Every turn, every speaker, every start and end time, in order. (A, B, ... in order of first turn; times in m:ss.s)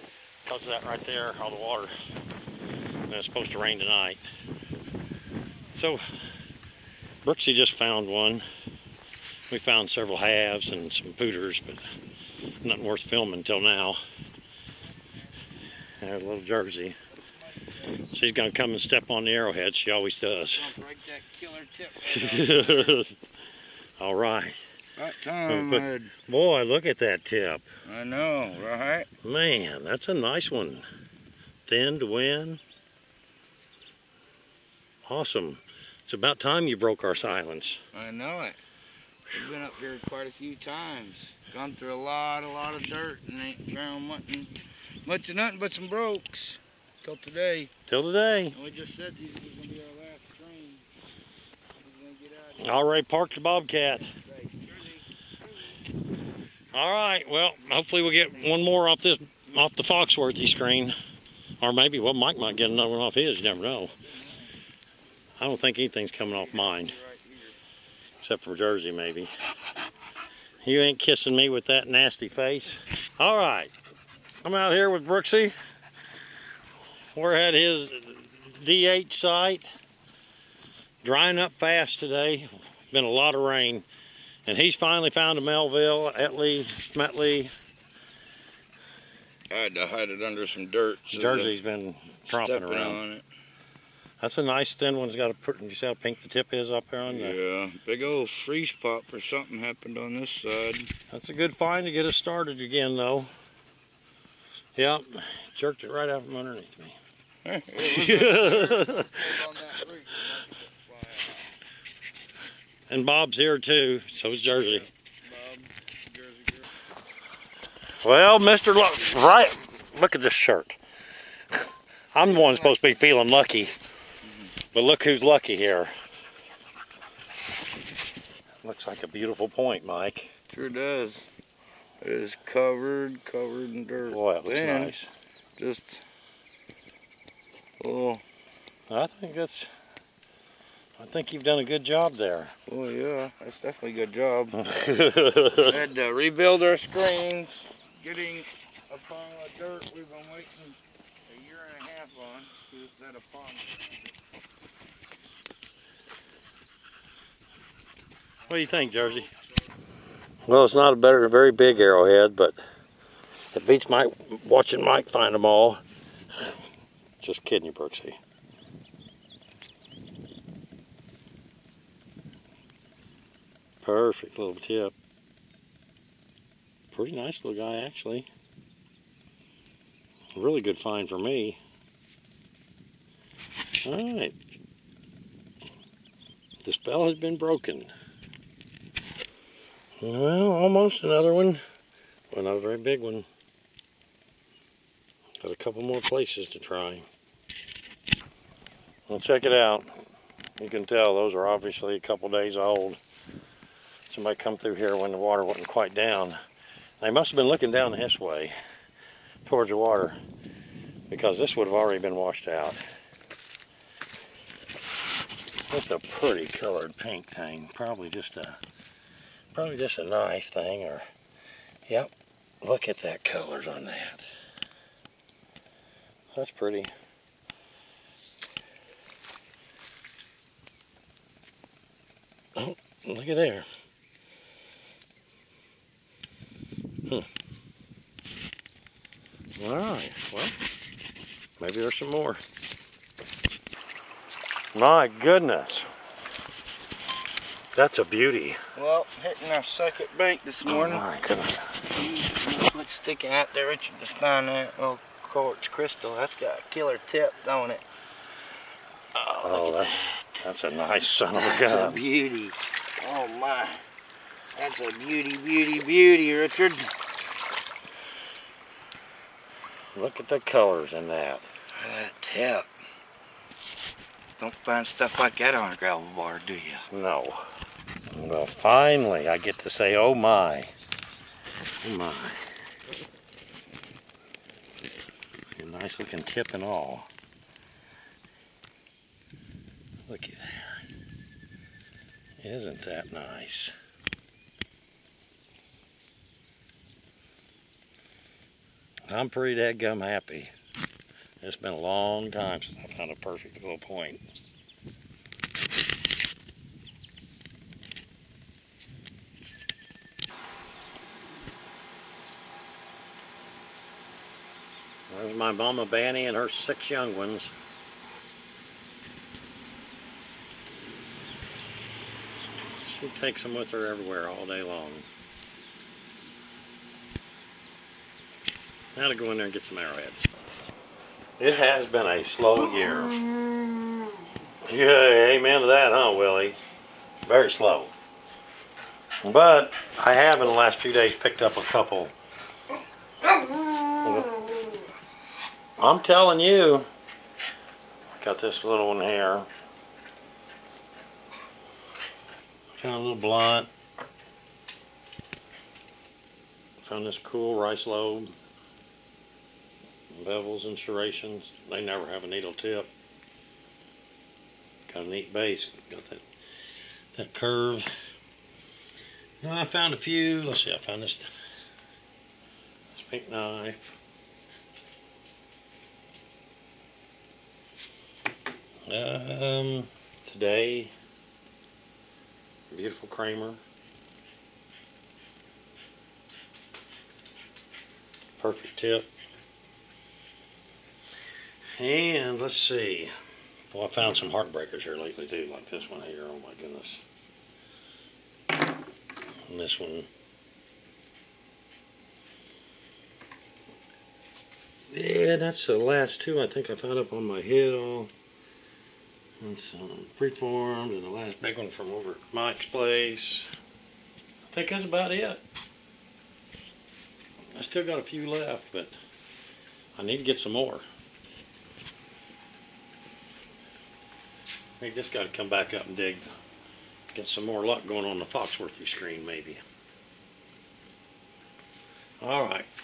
0:00.4-0:01.9 A
0:03.1-0:04.2 A
0:05.7-0:06.0 A
0:07.2-0:08.4 A
0:09.5-0:11.9 A
0:12.6-0:14.0 A
0:16.0-0:17.0 A
0:17.6-0:17.9 B
0:17.9-0:20.7 A
0:20.6-0:23.0 B
0:22.0-0:23.3 A
0:24.0-0:24.6 A
0:25.0-0:26.1 B
0:25.5-0:27.7 A
0:27.8-0:29.1 B
0:29.2-0:30.9 A
0:31.7-0:32.6 A
0:35.1-0:37.8 A
0:37.9-0:38.6 B
0:39.3-0:47.7 B
0:47.9-0:48.6 A
0:48.5-0:50.9 B
0:51.8-0:52.8 B
0:52.6-0:54.2 A
0:54.1-0:55.0 B
0:56.7-1:01.0 A
1:01.6-1:04.0 A
1:05.4-1:07.0 A
1:06.6-1:07.5 B
1:08.2-1:09.3 A
1:10.6-1:13.7 A
1:14.4-1:15.5 A
1:17.1-1:19.7 A
1:21.0-1:23.9 A
1:24.5-1:27.5 A
1:29.5-1:31.5 B
1:31.1-1:33.0 A
1:32.3-1:33.3 B
1:34.2-1:37.4 A
1:37.1-1:40.9 B
1:41.1-1:43.3 A
1:44.8-1:47.0 A
1:47.4-1:51.4 B
1:47.8-1:49.7 A
1:52.9-1:54.9 A
1:55.3-1:56.6 B
1:58.0-2:00.8 A
2:01.5-2:03.8 A
2:02.2-2:02.8 B
2:04.7-2:05.9 A
2:08.6-2:10.3 A
2:10.5-2:11.3 B
2:12.0-2:14.9 B
2:14.1-2:15.1 A
2:15.6-2:16.0 B
2:17.8-2:18.2 B
2:18.9-2:19.7 A
2:21.0-2:22.6 A
2:22.7-2:24.6 B
2:24.6-2:25.8 A
2:25.6-2:34.0 B
2:38.5-2:39.3 A
2:40.5-2:42.6 A
2:43.5-2:45.8 A
2:47.2-2:48.2 A
2:53.8-2:55.0 A
2:56.9-2:58.3 A
3:00.4-3:01.6 A
3:03.8-3:04.4 A
3:06.6-3:07.9 A
3:10.0-3:11.6 A
3:12.3-3:13.3 A
3:15.4-3:17.1 A
3:19.1-3:19.9 A
3:20.6-3:23.0 A
3:24.1-3:26.4 A
3:27.0-3:28.5 A
3:29.4-3:30.2 A
3:31.1-3:32.8 A
3:35.7-3:38.6 A
3:39.5-3:41.1 A
3:41.9-3:44.3 A
3:46.3-3:46.9 A
3:52.6-3:53.7 A
3:59.6-4:00.6 A
4:01.6-4:02.4 A
4:04.7-4:05.9 A
4:07.7-4:08.6 A
4:08.7-4:11.0 B
4:10.7-4:11.8 A
4:11.9-4:17.8 B
4:19.2-4:20.0 B
4:19.4-4:22.0 A
4:21.3-4:23.8 B
4:24.6-4:26.9 B
4:29.9-4:31.5 A
4:31.8-4:32.7 B
4:34.4-4:36.9 B
4:36.9-4:37.5 A
4:38.1-4:40.7 A
4:41.8-4:42.5 A
4:45.5-4:47.1 A
4:50.0-4:50.8 A
4:52.4-4:53.7 A
4:59.1-5:00.5 A
5:01.4-5:04.2 A
5:15.1-5:17.5 A
5:22.8-5:25.1 A
5:28.9-5:30.3 A
5:31.4-5:33.2 A
5:34.7-5:36.6 A
5:37.2-5:37.9 A
5:39.2-5:42.1 A
5:43.9-5:44.4 A
5:45.8-5:46.9 A
5:48.1-5:49.5 A
5:52.7-5:53.7 A
5:56.8-5:58.3 A
6:00.1-6:02.9 A
6:04.9-6:06.2 A
6:07.1-6:07.9 A
6:09.4-6:11.3 A
6:12.9-6:13.8 A
6:18.9-6:20.9 A
6:22.7-6:23.6 A
6:28.4-6:29.1 A
6:31.8-6:33.1 A
6:33.7-6:37.0 A
6:39.5-6:40.1 A
6:44.9-6:48.1 A
6:49.4-6:53.5 A
6:54.5-6:55.4 A
6:57.5-6:58.9 A
7:00.0-7:00.8 A
7:04.8-7:06.2 A
7:07.1-7:09.6 A
7:12.2-7:12.7 A